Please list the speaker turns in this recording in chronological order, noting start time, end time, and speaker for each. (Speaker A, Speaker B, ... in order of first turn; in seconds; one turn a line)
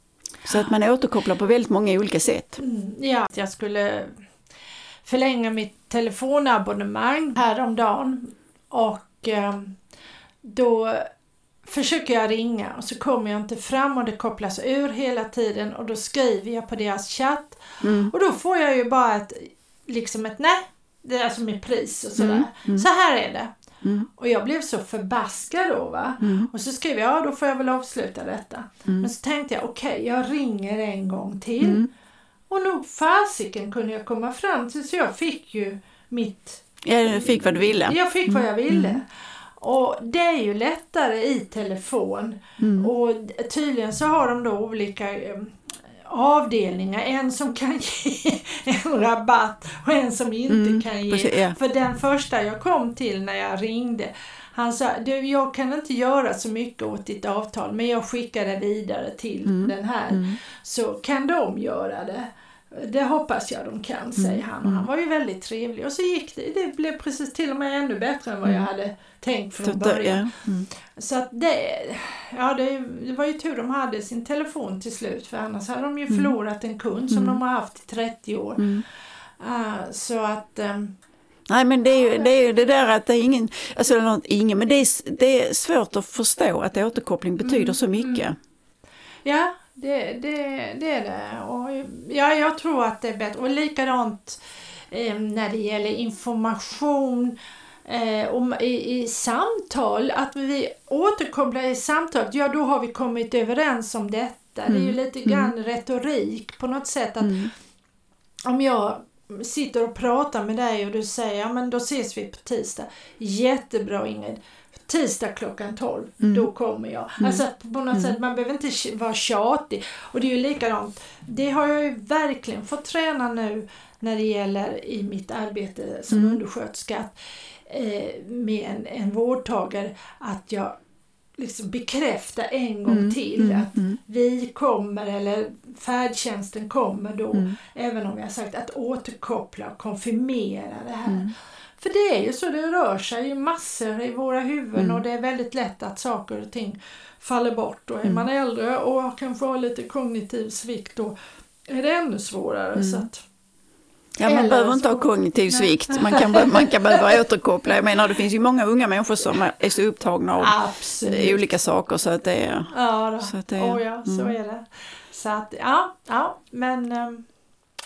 Speaker A: 0.5-2.6
Speaker B: 2.6-4.3
Speaker B: 5.0-9.8
Speaker B: 10.4-11.1
Speaker B: 11.6-23.5
Speaker A: 17.8-18.1
Speaker A: 22.2-22.9
Speaker B: 24.1-31.8
Speaker A: 26.2-26.5
Speaker A: 31.6-31.9
Speaker B: 32.5-39.1
Speaker A: 36.8-39.0
Speaker B: 39.6-70.2
Speaker A: 42.6-42.9
Speaker A: 50.5-51.6
Speaker A: 59.5-60.4
Speaker A: 64.2-64.9
Speaker A: 69.6-70.7
Speaker B: 70.9-78.7
Speaker A: 77.1-77.4
Speaker A: 78.6-78.8
Speaker B: 79.4-80.9
Speaker A: 81.5-88.3
Speaker B: 87.4-88.2
Speaker B: 89.2-94.4
Speaker B: 94.9-107.5
Speaker A: 104.7-105.5
Speaker A: 107.2-107.5
Speaker B: 108.5-130.7
Speaker A: 116.2-116.5
Speaker A: 117.2-118.2
Speaker A: 126.1-126.4
Speaker B: 131.4-151.2
Speaker A: 132.9-134.0
Speaker A: 141.1-141.3
Speaker A: 144.8-145.0
Speaker B: 151.7-153.2
Speaker A: 152.8-153.1
Speaker A: 154.2-164.3
Speaker B: 154.2-157.0
Speaker B: 160.4-161.5
Speaker B: 162.7-167.3